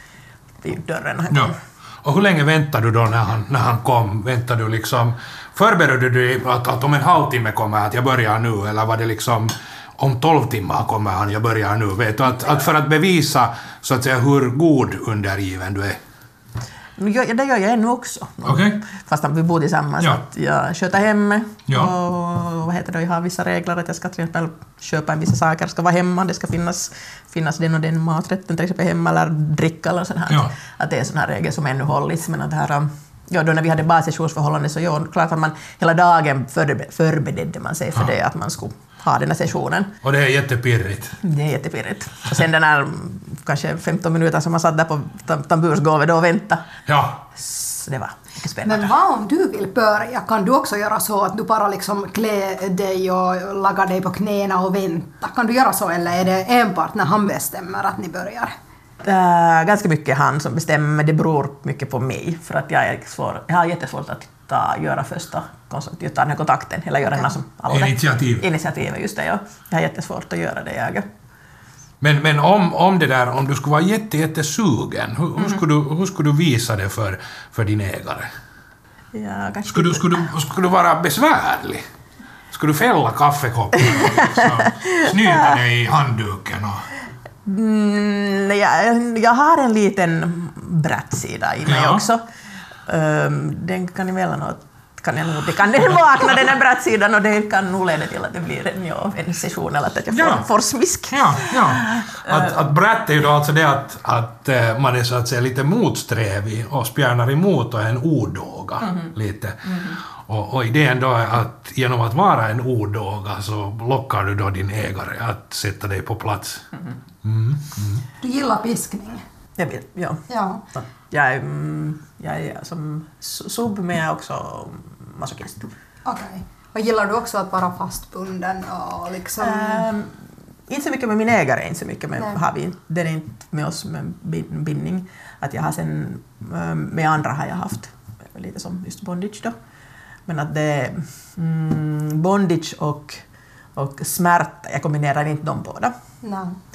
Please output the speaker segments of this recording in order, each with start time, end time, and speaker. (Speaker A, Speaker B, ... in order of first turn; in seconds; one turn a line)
Speaker A: 0.6-1.6
Speaker B: 1.3-16.0
Speaker A: 17.0-39.9
Speaker B: 18.4-18.8
Speaker B: 40.0-41.2
Speaker A: 41.2-46.7
Speaker B: 46.9-47.2
Speaker A: 47.3-49.0
Speaker C: 48.6-58.5
Speaker A: 59.0-71.0
Speaker B: 67.7-68.5
Speaker B: 72.0-78.3
Speaker A: 79.1-80.2
Speaker B: 79.7-81.8
Speaker B: 82.5-86.9
Speaker A: 84.0-85.6
Speaker A: 87.4-92.2
Speaker B: 91.6-92.0
Speaker A: 92.9-102.5
Speaker B: 100.1-100.5
Speaker B: 101.1-116.7
Speaker A: 109.7-109.9
Speaker B: 117.2-118.0
Speaker C: 118.2-119.2
Speaker A: 119.6-120.2
Speaker C: 120.3-120.6
Speaker A: 120.8-125.7
Speaker C: 126.0-129.9
Speaker A: 129.4-139.5
Speaker A: 140.3-143.2
Speaker A: 143.8-145.9
Speaker C: 146.2-146.6